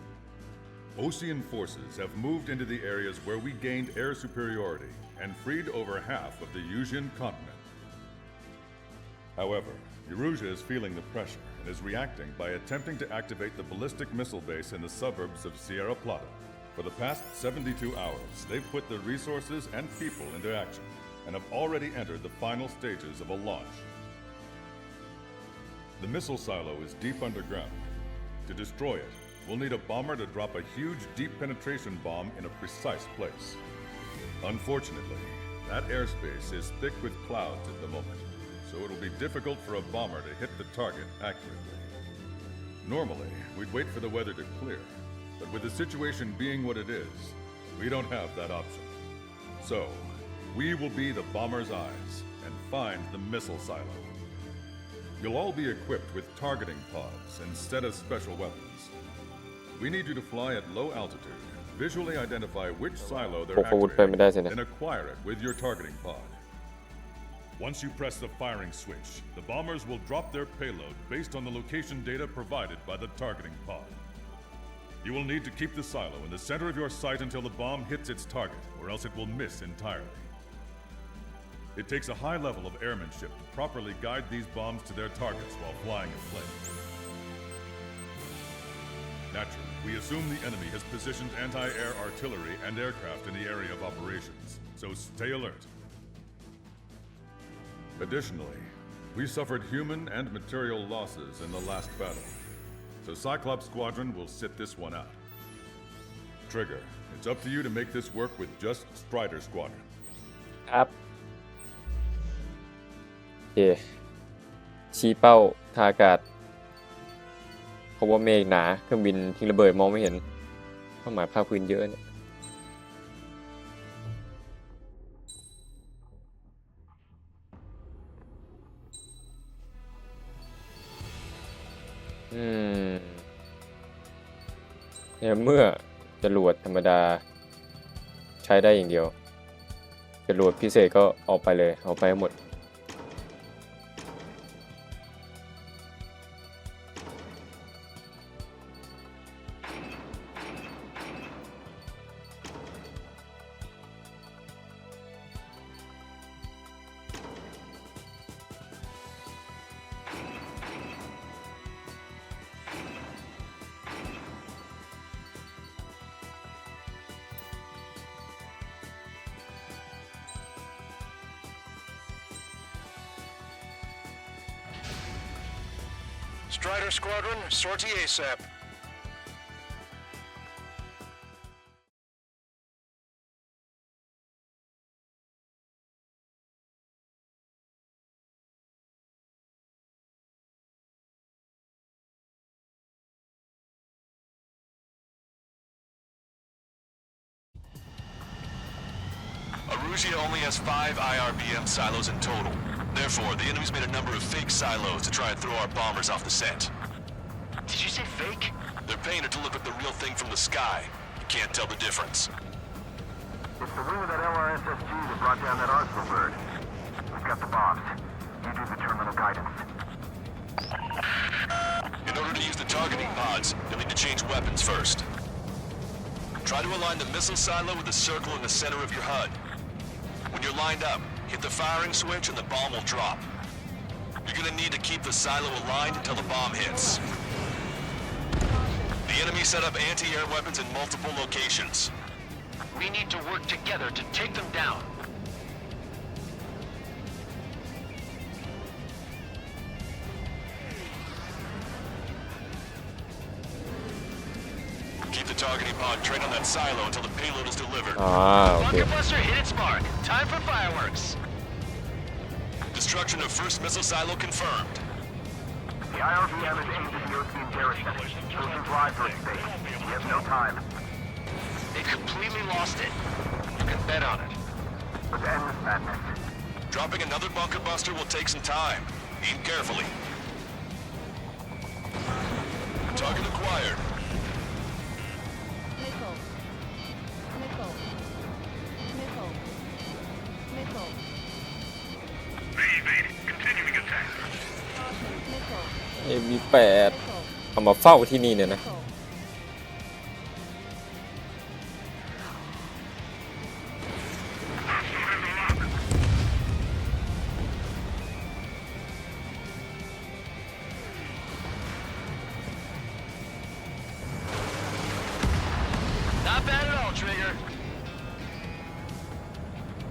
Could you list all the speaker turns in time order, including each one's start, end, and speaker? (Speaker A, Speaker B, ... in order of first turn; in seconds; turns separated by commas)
Speaker A: 0.9-7.6, Speaker A: 9.4-23.9, Speaker A: 26.0-27.9, Speaker A: 28.4-33.6, Speaker A: 34.4-41.9, Speaker A: 42.8-49.0, Speaker A: 49.6-54.1, Speaker A: 55.2-58.9, Speaker A: 59.7-66.4, Speaker B: 63.0-64.5, Speaker A: 67.6-74.0, Speaker A: 75.0-80.3, Speaker A: 81.7-86.7, Speaker A: 89.3-95.7, Speaker A: 98.0-102.4, Speaker A: 103.0-105.2, Speaker A: 106.5-109.8, Speaker B: 113.5-113.8, Speaker B: 114.9-116.2, Speaker B: 118.0-120.2, Speaker B: 121.0-122.0, Speaker B: 132.3-133.2, Speaker B: 135.2-137.2, Speaker B: 138.4-139.1, Speaker B: 140.3-142.3, Speaker C: 176.5-178.4, Speaker D: 199.7-206.7, Speaker C: 207.7-208.5, Speaker D: 208.8-212.3, Speaker E: 213.6-216.4, Speaker E: 217.1-219.6, Speaker D: 222.0-225.1, Speaker D: 226.4-229.4, Speaker D: 230.3-233.3, Speaker D: 234.2-237.0, Speaker D: 239.0-241.9, Speaker C: 242.7-244.9, Speaker D: 255.1-258.0, Speaker B: 257.9-258.9, Speaker C: 258.5-261.2, Speaker D: 262.7-264.8, Speaker C: 265.9-267.7, Speaker E: 266.0-270.6, Speaker D: 268.1-268.7, Speaker C: 268.8-270.2, Speaker C: 271.7-272.9, Speaker C: 273.5-274.4, Speaker E: 275.1-276.1, Speaker D: 276.7-279.9, Speaker D: 282.9-283.8, Speaker D: 292.6-294.1, Speaker B: 296.0-297.0, Speaker B: 297.5-298.6, Speaker D: 304.8-305.6, Speaker C: 316.2-317.4